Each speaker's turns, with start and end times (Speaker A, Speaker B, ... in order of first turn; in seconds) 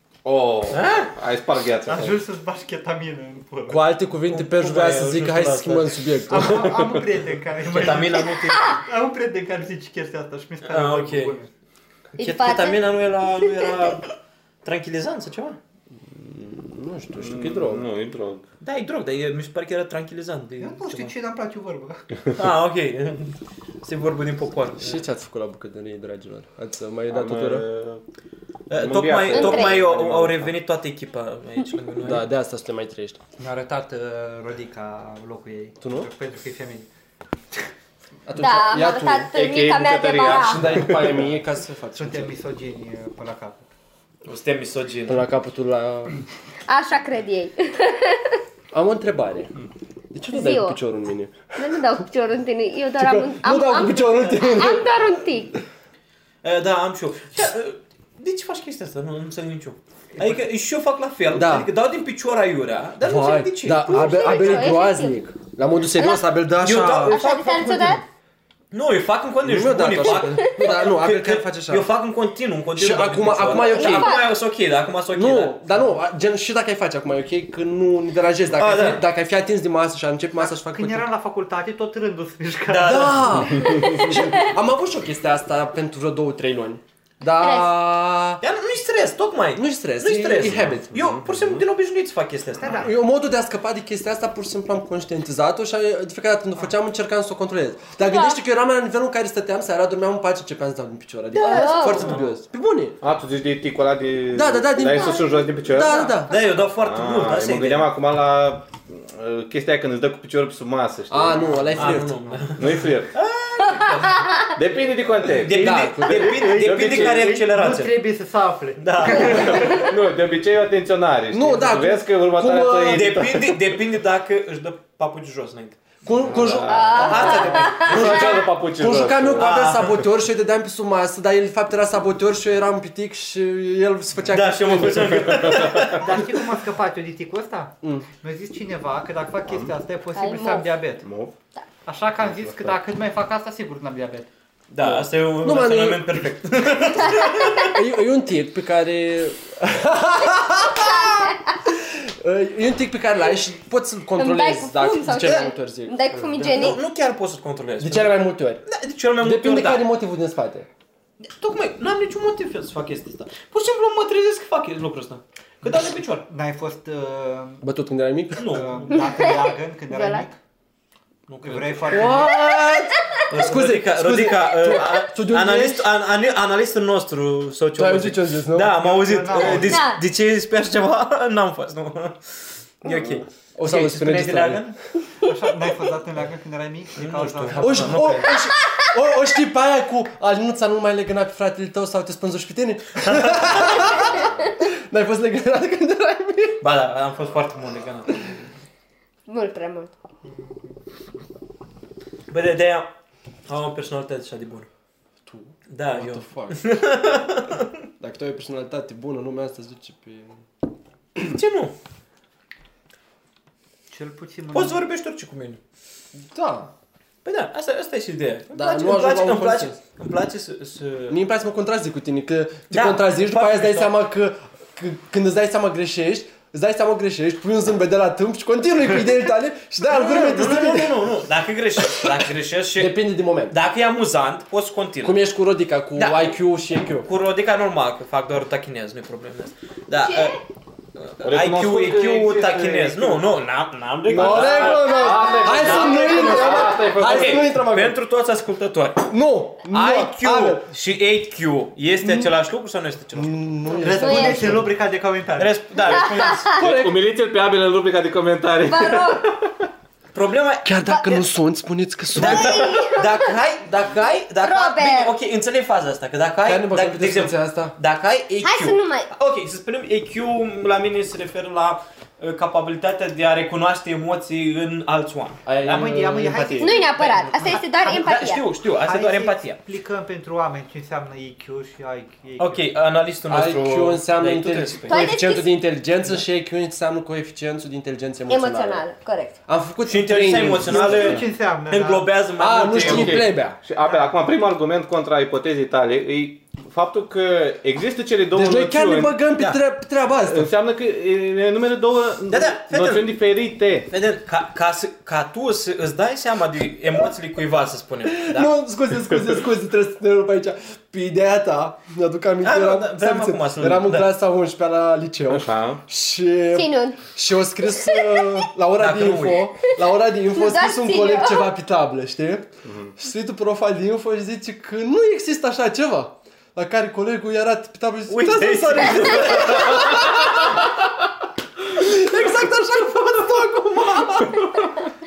Speaker A: 0.2-2.2, 17.2-18.5, 27.1-28.0, 28.8-30.5, 39.3-41.3, 83.5-84.1, 90.6-91.7, 103.0-106.2, 106.7-112.0, 112.5-113.1, 114.5-117.4, 119.0-123.5, 126.2-129.7, 139.5-139.7, 141.0-141.3, 142.2-142.7, 241.2-243.2, 244.1-247.5, 256.5-259.7, 292.8-299.2, 300.3-303.9, 315.3-315.8, 322.7-322.9, 334.4-334.7
Speaker B: 0.7-1.1, 4.3-6.0, 7.6-8.8, 10.6-11.4, 12.2-14.1, 14.6-15.6, 18.6-21.1, 22.4-25.0, 28.7-32.3, 44.2-45.2, 56.4-64.7, 66.6-68.0, 68.7-75.8, 78.6-79.0, 82.7-83.6, 88.4-92.9, 101.4-102.3, 106.0-107.9, 111.8-114.4, 115.3-118.0, 118.8-119.7, 122.9-128.1, 129.4-130.0, 134.3-136.3, 144.7-147.8, 155.2-155.4, 156.4-159.9, 161.2-166.2, 168.4-169.5, 171.3-172.3, 173.3-184.8, 187.0-188.4, 193.0-194.0, 196.6-198.4, 202.3-202.9, 203.5-204.7, 205.7-207.7, 211.2-211.8, 214.5-215.6, 217.2-221.2, 222.7-223.9, 229.9-235.2, 236.0-240.4, 241.0-249.1, 249.7-253.5, 255.4-256.9, 260.1-261.2, 262.1-276.8, 277.4-279.6, 282.4-285.1, 289.9-293.3, 302.3-303.1, 303.9-308.5, 312.4-314.1, 318.8-319.5, 328.1-330.4, 331.9-332.5, 333.4-334.3
Speaker C: 1.9-3.8, 6.3-11.5, 20.6-22.1, 33.4-36.9, 42.0-43.7, 60.2-60.4, 80.4-83.5, 92.6-92.9, 116.4-119.7, 127.0-127.8, 135.9-141.1, 141.9-144.3, 166.3-167.6, 168.4-170.4, 171.4-172.4, 178.8-179.8, 185.2-188.2, 213.9-214.8, 253.8-255.6, 275.6-278.0, 278.8-282.7, 290.7-292.1, 293.8-294.1
Speaker D: 3.7-6.9, 16.0-17.9, 24.8-27.6, 32.0-33.2, 35.8-36.1, 38.3-39.3, 40.3-42.4, 45.1-46.2, 48.7-49.5, 50.1-52.0, 53.0-54.9, 61.3-61.7, 63.0-67.2, 69.4-71.9, 72.8-74.2, 75.1-81.0, 82.8-88.4, 89.6-91.0, 92.8-103.0, 104.3-106.4, 111.1-112.3, 115.5-116.4, 121.3-123.4, 126.0-135.7, 137.8-138.1, 144.8-146.2, 147.6-156.0, 157.8-158.6, 159.2-160.7, 167.6-168.6, 171.9-175.9, 177.8-178.8, 183.6-184.7, 187.5-196.6, 205.3-206.7, 208.0-210.4, 216.2-216.7, 218.5-219.8, 221.1-231.1, 232.8-233.6, 235.0-237.1, 244.1-248.0, 249.1-250.7, 252.0-252.3, 253.2-254.7, 260.6-262.7, 266.4-267.8, 275.5-276.6, 283.3-288.8, 289.5-291.2, 292.4-293.6, 298.3-300.5, 308.1-330.3, 331.7-334.1
Speaker E: 8.5-8.8, 12.2-13.7, 29.3-29.8, 38.4-40.9, 46.7-48.4, 50.3-50.8, 51.6-55.5, 63.9-65.2, 66.0-66.3, 67.1-68.0, 73.5-74.3, 83.7-84.1, 87.4-87.7, 98.0-98.4, 101.4-102.2, 113.8-114.2, 126.7-128.3, 140.2-140.7, 150.7-151.4, 154.2-156.8, 168.9-170.3, 179.6-180.0, 199.3-199.9, 240.0-240.4, 253.9-254.6, 255.8-256.6, 258.6-259.3, 262.2-263.3, 264.4-265.1, 268.4-269.1, 276.6-278.4, 284.9-285.6, 288.3-289.4, 316.5-317.0, 317.7-318.3, 320.3-321.5